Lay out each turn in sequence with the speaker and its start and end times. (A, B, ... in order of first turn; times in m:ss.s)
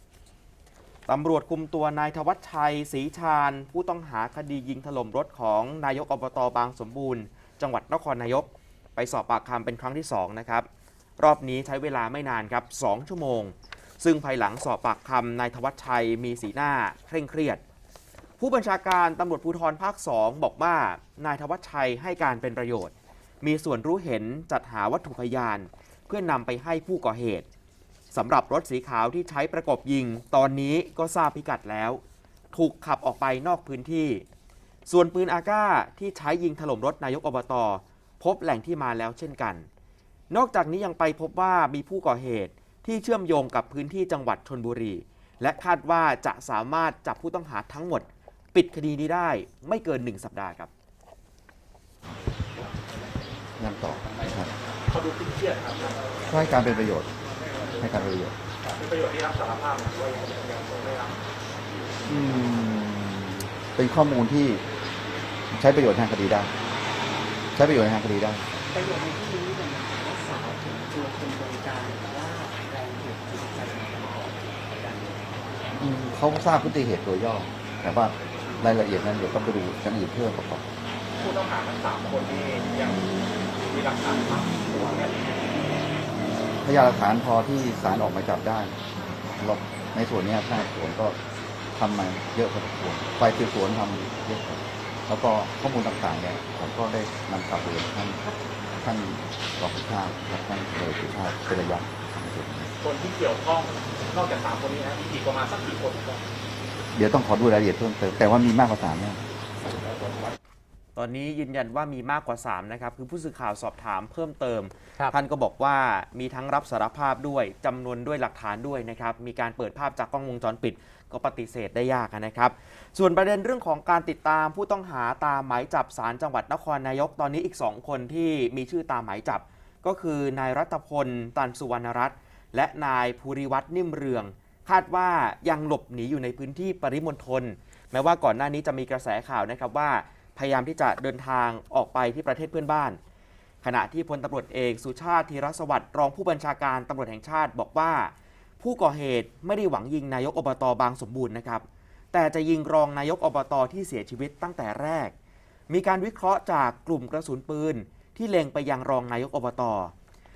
0:01.1-0:10.7 A
0:11.2-0:17.6 A
0:18.4-0:27.5 A
0:28.1-0:32.0 A
0:32.5-0:34.2 A
0:34.9-0:39.7 A
0:40.3-0:50.7 A
0:53.6-0:54.5 B
0:54.9-0:56.2 C
0:56.3-0:57.1 B
0:57.8-0:58.4 B
0:58.7-1:01.2 C
1:02.1-1:04.6 B
1:05.5-1:06.5 B
1:07.6-1:08.5 B
1:08.7-1:15.8 D
1:15.8-1:20.6 B
1:21.2-1:25.7 C
1:26.6-1:31.2 B
1:31.8-1:38.2 B
1:38.8-1:42.7 B
1:42.8-1:46.2 C
1:47.0-1:49.2 B
1:51.0-2:23.0 A
2:23.6-2:35.1 A
2:35.7-2:39.9 A